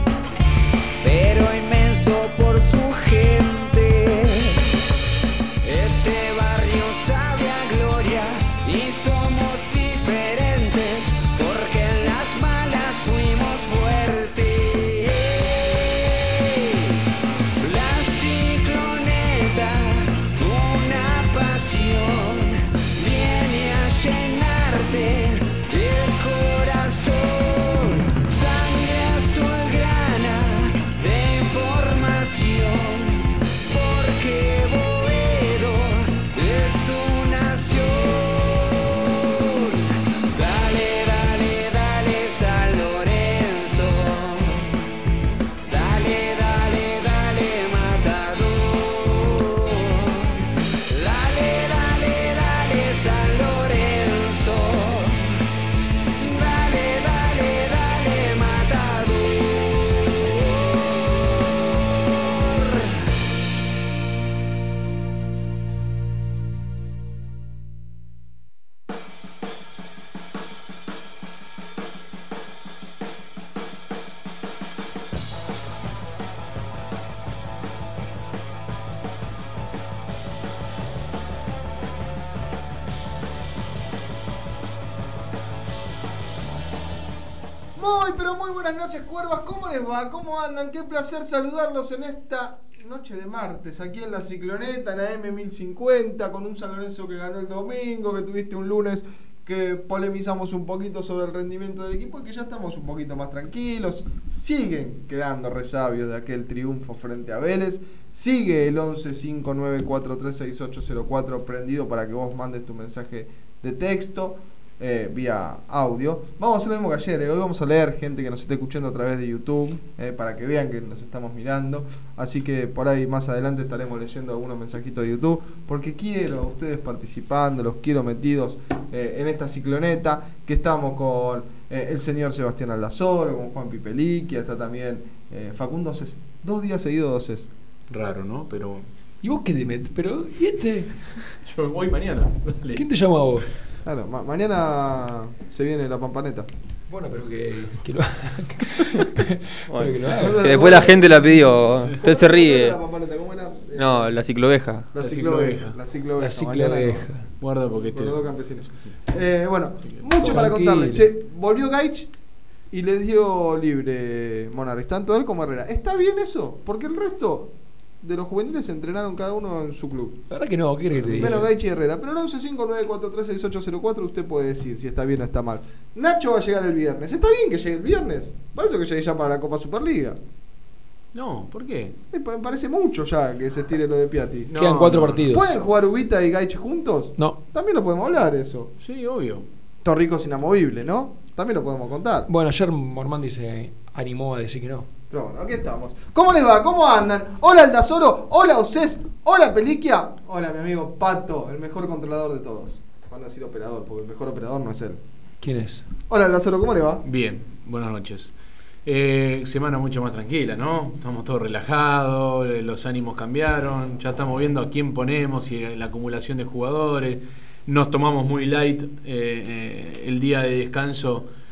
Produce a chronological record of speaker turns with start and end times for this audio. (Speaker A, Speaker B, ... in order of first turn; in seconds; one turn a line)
Speaker A: 1.0-4.7
Speaker A: 5.6-16.9
Speaker A: 17.6-44.8
Speaker A: 45.6-55.4
Speaker A: 56.2-63.1
Speaker B: 87.8-137.5
Speaker C: 137.9-138.9
Speaker D: 139.2-141.0
Speaker C: 141.4-142.8
Speaker D: 142.7-143.5
Speaker B: 143.8-146.5
Speaker D: 146.9-150.7
Speaker E: 149.7-152.8
Speaker B: 150.2-151.3
Speaker B: 151.9-154.2
Speaker E: 153.8-154.9
Speaker B: 154.9-157.1
Speaker C: 155.0-155.8
Speaker D: 156.2-157.2
Speaker C: 157.4-158.3
Speaker B: 157.9-162.1
Speaker C: 159.8-160.4
Speaker D: 160.2-161.0
Speaker B: 162.7-170.2
Speaker D: 170.3-171.4
Speaker B: 171.1-180.2
Speaker C: 181.1-181.9
Speaker B: 182.1-184.5
Speaker C: 184.5-185.2
Speaker D: 184.6-185.5
Speaker B: 185.2-188.7
Speaker C: 188.8-189.4
Speaker B: 189.8-192.3
Speaker D: 192.3-194.9
Speaker B: 195.1-205.0
Speaker D: 205.4-205.8
Speaker B: 206.1-207.0
Speaker C: 207.0-208.3
Speaker C: 208.8-221.3